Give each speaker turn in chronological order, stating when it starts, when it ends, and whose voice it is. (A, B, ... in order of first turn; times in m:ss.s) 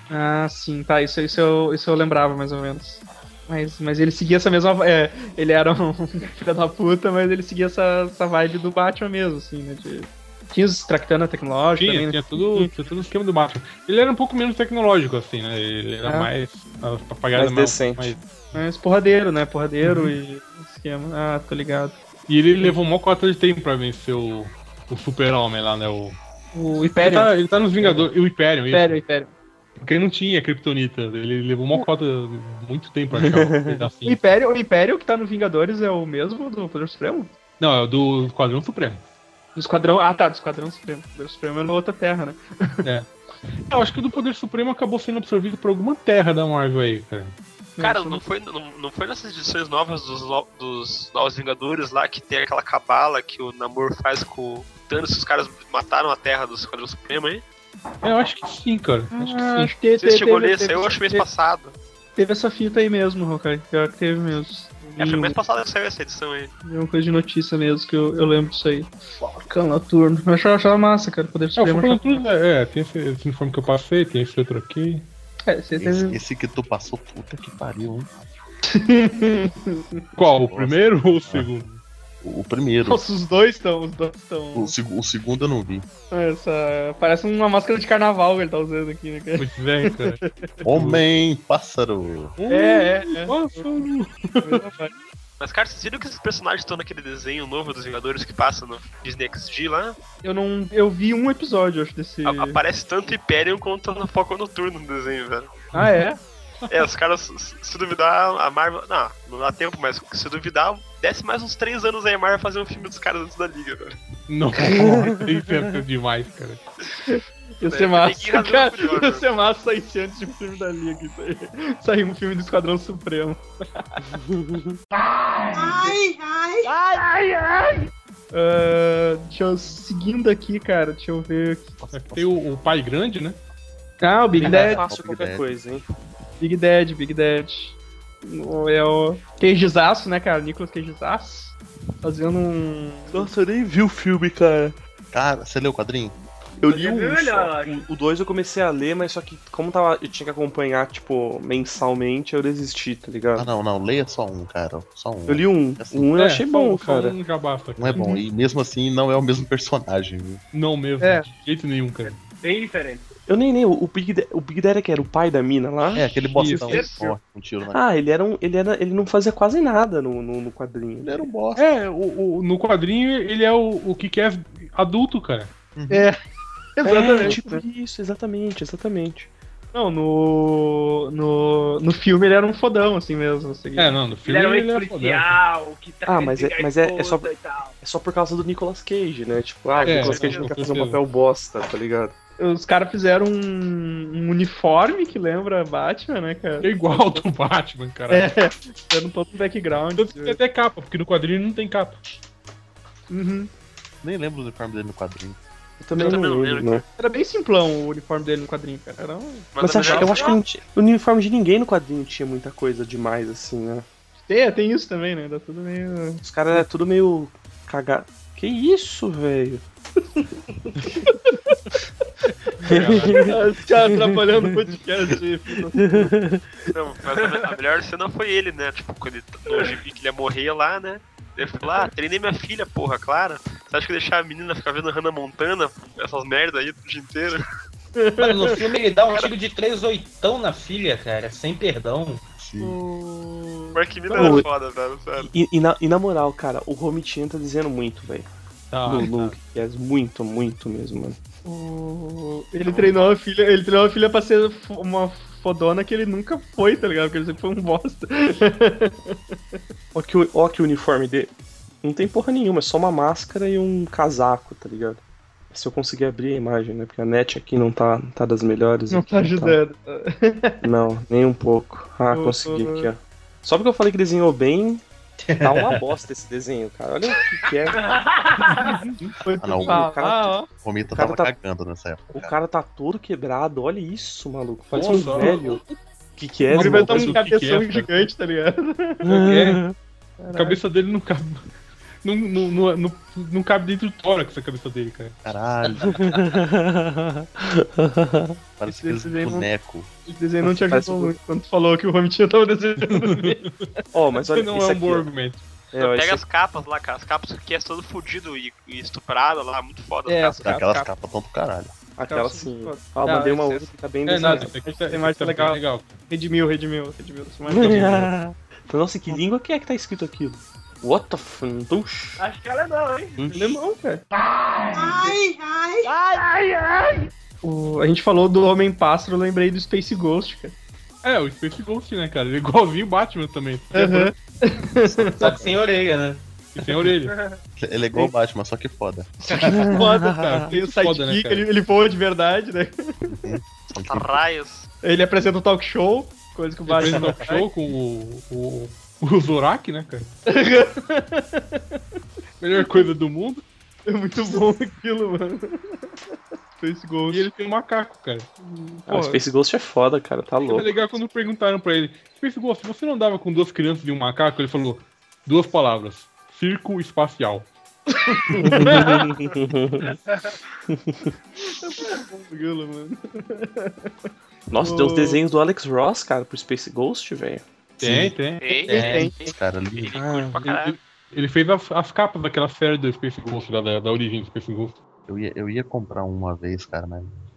0:00.1-0:12.7 A
0:11.8-0:18.2 B
0:16.0-0:16.3 A
0:17.3-0:18.2 C
0:18.5-0:22.0 A
0:19.8-0:20.1 B
0:22.3-0:26.2 B
0:26.5-0:28.1 A
0:27.0-0:29.0 B
0:28.7-0:29.3 A
0:29.8-0:34.2 B
0:33.5-0:33.8 C
0:34.0-0:37.3 A
0:37.6-0:39.0 B
0:39.6-0:42.8 A
0:43.7-0:47.3 B
0:47.8-0:48.2 A
0:47.8-0:57.4 D
0:58.0-0:59.7 B
0:59.1-1:01.2 A
1:00.0-1:01.8 D
1:02.2-1:05.4 A
1:05.0-1:06.5 D
1:06.6-1:12.2 A
1:11.6-1:15.1 B
1:15.5-1:16.2 A
1:15.8-1:18.1 E
1:18.7-1:20.0 A
1:20.2-1:21.8 B
1:20.4-1:21.5 E
1:22.2-1:23.0 E
1:22.9-1:24.7 A
1:24.6-1:25.8 E
1:26.1-1:30.3 A
1:29.4-1:31.0 B
1:30.6-1:32.4 E
1:32.4-1:34.7 B
1:32.5-1:33.7 A
1:34.4-1:34.9 A
1:35.4-1:40.0 D
1:40.2-1:42.6 A
1:42.2-1:45.6 D
1:45.7-1:46.0 B
1:45.7-1:46.2 A
1:46.7-1:54.0 D
1:54.3-1:56.6 B
1:54.8-1:55.2 C
1:57.1-2:03.4 A
1:57.6-1:59.3 D
2:04.1-2:04.8 C
2:06.7-2:07.0 C
2:08.3-2:11.7 A
2:11.8-2:12.4 E
2:11.9-2:13.4 B
2:14.0-2:14.8 A
2:14.4-2:15.8 C
2:14.4-2:15.5 E
2:16.4-2:23.3 A
2:23.1-2:24.8 C
2:25.1-2:26.2 E
2:26.6-2:33.5 C
2:26.7-2:27.9 F
2:33.4-2:36.1 E
2:35.3-2:37.2 C
2:36.2-2:38.0 B
2:37.8-2:40.4 E
2:38.0-2:38.2 A
2:40.5-2:42.2 B
2:41.0-2:41.3 A
2:42.0-2:43.0 F
2:43.3-2:46.6 C
2:45.9-2:47.8 E
2:46.3-2:46.8 B
2:47.7-2:51.3 C
2:51.0-2:51.7 E
2:51.6-2:55.5 B
2:55.8-2:56.1 E
2:55.9-2:56.2 A
2:56.8-2:57.6 A
2:56.8-2:59.3 C
2:59.7-3:04.0 A
3:03.8-3:05.4 B
3:04.2-3:07.8 F
3:06.1-3:07.3 C
3:07.8-3:12.2 C
3:09.8-3:10.5 D
3:09.8-3:10.2 F
3:09.8-3:11.0 B
3:12.4-3:17.2 A
3:16.6-3:18.4 B
3:18.1-3:20.4 A
3:20.0-3:22.0 B
3:23.1-3:23.5 A
3:24.0-3:25.4 E
3:25.8-3:26.8 C
3:26.0-3:26.8 D
3:27.0-3:30.0 A
3:29.5-3:30.4 D
3:29.6-3:33.9 C
3:29.9-3:30.4 F
3:34.3-3:36.2 A
3:36.2-3:39.6 C
3:41.1-3:41.5 A
3:42.6-3:43.4 B
3:42.7-3:43.4 C
3:43.2-3:46.2 A
3:43.9-3:44.4 C
3:45.8-3:46.4 C
3:46.7-3:57.5 D
3:58.0-3:58.6 A
3:58.2-4:02.2 G
4:02.4-4:02.8 E
4:02.6-4:04.4 A
4:03.7-4:05.3 D
4:04.1-4:04.5 C
4:05.2-4:08.3 C
4:08.7-4:09.4 B
4:08.8-4:11.2 C
4:11.4-4:19.2 A
4:19.9-4:21.3 C
4:21.8-4:29.6 C
4:28.9-4:30.6 A
4:30.6-4:34.8 C
4:32.1-4:32.9 A
4:35.2-4:35.8 G
4:35.4-4:37.9 C
4:37.7-4:38.8 F
4:38.6-4:39.1 B
4:39.2-4:40.5 A
4:39.4-4:39.9 E
4:39.6-4:40.4 C
4:40.6-4:42.3 E
4:40.9-4:41.3 C
4:42.1-4:45.6 C
4:44.7-4:45.6 B
4:46.2-4:47.2 C
4:46.5-4:48.1 B
4:46.5-4:49.0 A
4:49.0-4:49.8 C
4:49.1-4:49.6 B
4:50.2-4:50.6 A
4:50.3-4:51.4 B
4:52.0-4:55.2 B
4:55.2-4:56.2 E
4:55.9-4:58.4 C
4:58.6-4:59.9 E
4:58.7-4:59.5 A
5:00.1-5:03.4 A
5:00.4-5:01.2 C
5:02.9-5:03.5 B
5:03.9-5:05.1 C
5:04.3-5:05.4 B
5:05.7-5:06.2 C
5:05.8-5:10.4 D
5:10.1-5:10.9 A
5:10.4-5:11.8 E
5:12.0-5:14.5 C
5:12.1-5:18.0 A
5:14.1-5:15.9 B
5:17.5-5:22.2 C
5:17.6-5:18.1 B
5:22.2-5:23.2 F
5:23.2-5:23.5 E
5:23.3-5:24.0 A
5:27.4-5:30.6 A
5:31.0-5:34.2 B
5:33.7-5:35.3 A
5:34.8-5:35.6 E
5:35.1-5:36.2 G
5:36.6-5:37.2 B
5:37.6-5:39.2 E
5:39.4-5:39.7 G
5:39.4-5:40.5 C
5:39.6-5:43.2 A
5:40.1-5:41.5 B
5:43.1-5:44.2 E
5:43.7-5:44.7 D
5:44.8-5:47.5 A
5:46.7-5:50.1 B
5:46.8-5:47.2 G
5:50.3-5:51.8 A
5:52.4-5:53.4 B
5:52.6-5:52.9 A
5:53.9-5:55.6 A
5:56.6-5:57.3 A
5:57.1-5:58.3 B
5:58.4-5:59.2 A
5:58.9-6:00.7 C
6:00.5-6:07.5 B
6:08.2-6:09.0 A
6:08.4-6:10.0 C
6:10.7-6:11.1 C
6:11.6-6:13.9 A
6:14.5-6:17.4 C
6:14.6-6:15.2 A
6:17.8-6:18.2 E
6:17.8-6:18.6 B
6:18.4-6:20.8 D
6:18.7-6:19.2 A
6:18.8-6:20.1 E
6:19.9-6:20.5 C
6:20.4-6:24.8 B
6:25.1-6:27.1 E